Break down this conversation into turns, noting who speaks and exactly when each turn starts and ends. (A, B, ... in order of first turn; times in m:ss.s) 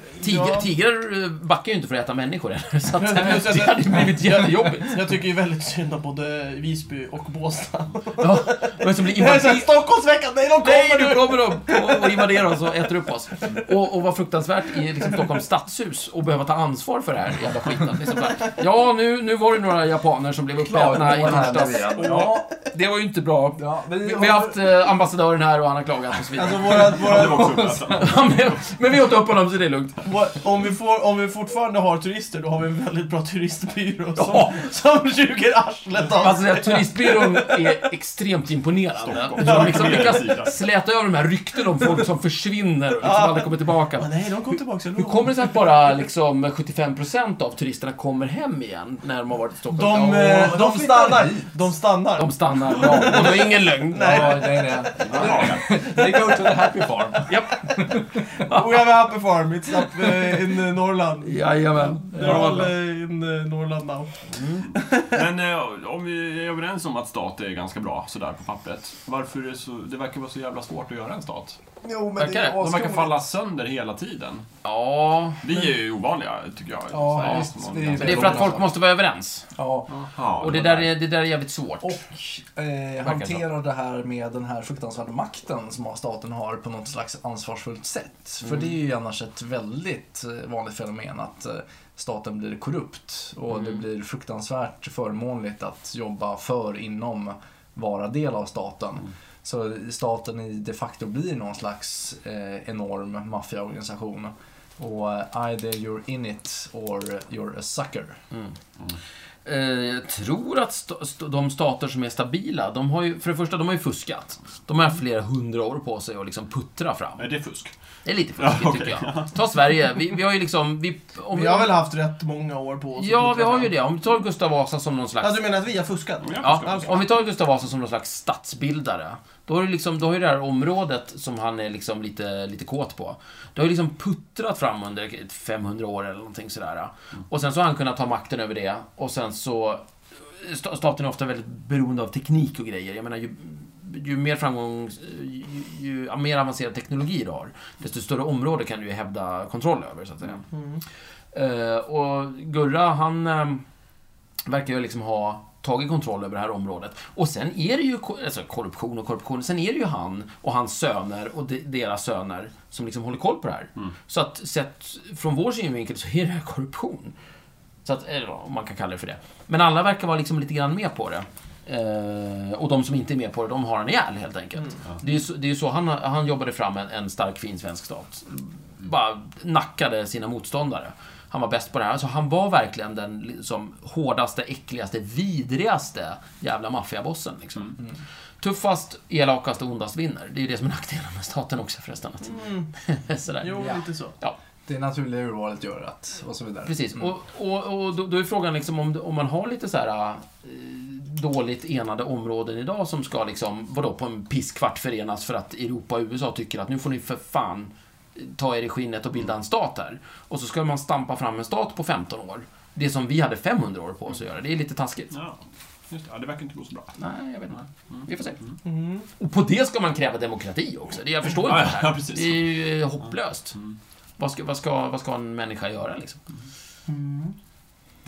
0:00.2-0:00.7 A
0:00.2-0:05.0 B
0:02.9-0:12.5 A
0:08.2-0:09.8 B
0:10.6-0:30.0 B
0:20.6-0:22.4 C
0:21.9-0:22.3 D
0:23.6-0:24.8 C
0:26.3-0:27.9 A
0:26.6-0:28.3 D
0:30.0-0:37.7 A
0:34.2-0:34.6 B
0:36.1-0:44.1 B
0:39.0-0:40.6 D
0:39.4-0:40.2 A
0:43.0-0:45.6 A
0:45.0-0:50.8 B
0:49.7-0:56.7 A
0:50.3-0:51.4 C
0:52.2-0:54.6 B
0:53.9-0:58.0 C
0:55.0-0:55.7 D
0:57.3-0:57.8 B
0:58.4-1:01.4 A
1:01.2-1:02.7 B
1:02.0-1:04.1 A
1:04.3-1:04.7 B
1:04.7-1:05.2 A
1:05.0-1:11.6 D
1:11.8-1:13.1 C
1:12.2-1:12.6 B
1:12.5-1:14.5 D
1:14.6-1:15.4 B
1:15.4-1:18.6 D
1:16.9-1:18.7 C
1:18.0-1:19.4 B
1:19.5-1:19.9 C
1:19.9-1:20.9 D
1:20.4-1:22.0 B
1:21.8-1:48.2 C
1:23.0-1:23.4 B
1:33.5-1:33.8 B
1:49.4-1:57.2 B
1:57.2-1:57.7 D
1:58.0-2:01.7 B
1:58.4-1:59.3 D
2:01.3-2:03.7 A
2:03.0-2:05.4 B
2:05.2-2:07.0 A
2:06.2-2:07.0 D
2:06.4-2:30.4 B
2:30.5-2:30.8 A
2:31.3-2:33.6 B
2:34.4-2:47.1 B
2:47.8-3:07.8 B
3:08.4-3:13.7 B
3:12.2-3:12.7 A
3:13.4-3:14.1 A
3:14.6-3:17.0 C
3:16.6-3:35.1 B
3:35.1-3:35.4 D
3:35.9-3:36.9 D
3:37.0-3:38.4 B
3:38.6-3:39.1 A
3:39.2-3:43.6 B
3:41.3-3:42.5 D
3:44.2-3:46.2 B
3:46.9-3:47.4 A